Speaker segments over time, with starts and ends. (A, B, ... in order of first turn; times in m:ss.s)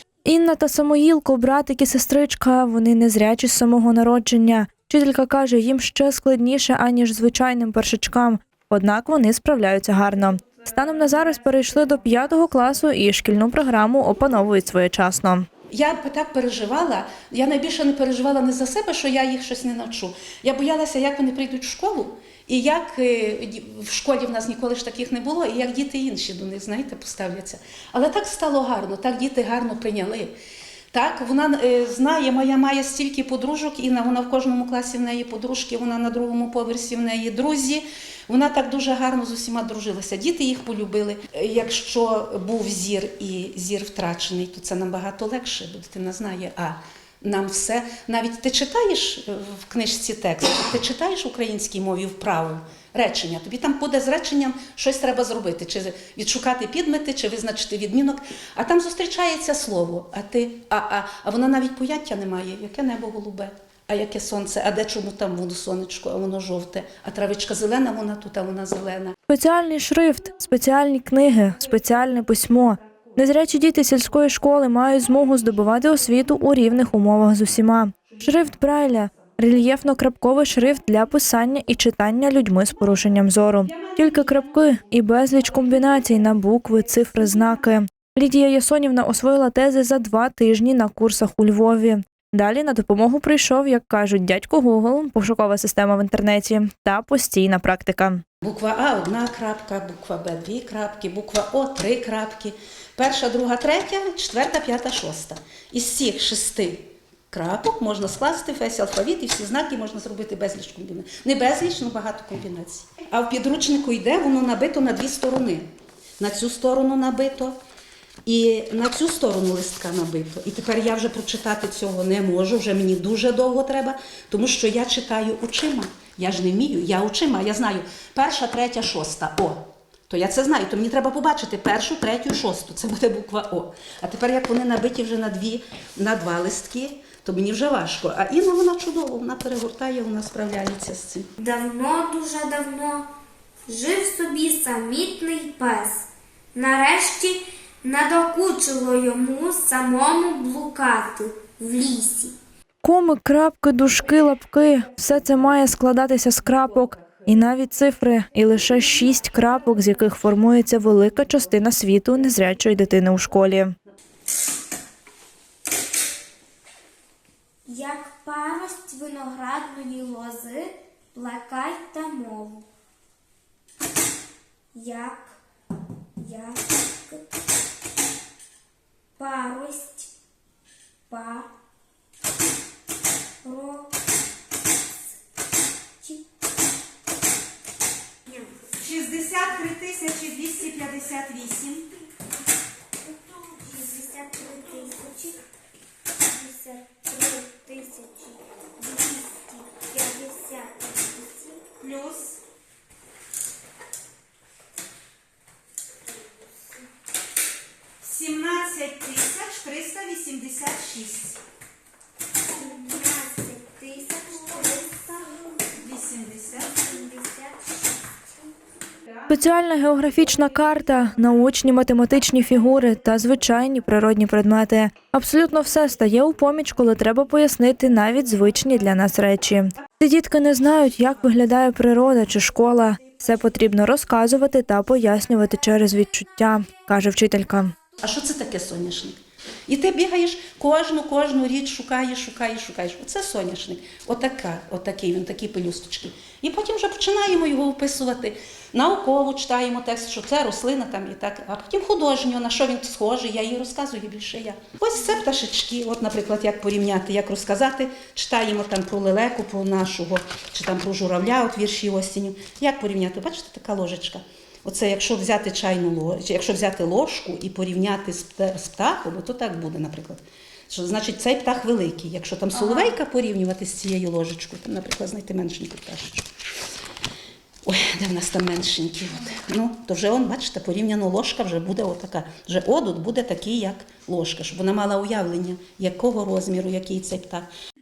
0:00.2-0:15.5 A
0:15.7-0:30.3 B
0:30.9-1:09.1 B
1:09.3-1:38.2 A
1:38.4-1:57.6 B
1:58.2-2:21.3 B
2:21.4-2:23.1 C
2:23.7-2:32.3 C
2:32.8-2:43.7 A
2:47.7-2:52.6 C
2:54.7-2:55.4 C
2:56.2-2:57.3 C
2:59.2-3:00.1 C
3:01.1-3:01.5 C
3:03.4-3:03.9 C
3:08.3-3:08.6 C
3:08.8-3:11.9 B
3:13.1-3:15.4 C
3:16.3-3:21.6 C
3:21.8-3:22.4 B
3:28.0-3:31.4 B
3:32.6-3:35.6 C
3:35.7-3:36.7 B
3:36.8-3:38.2 C
3:39.3-3:57.7 A
3:58.0-4:36.3 B
4:37.6-4:47.5 B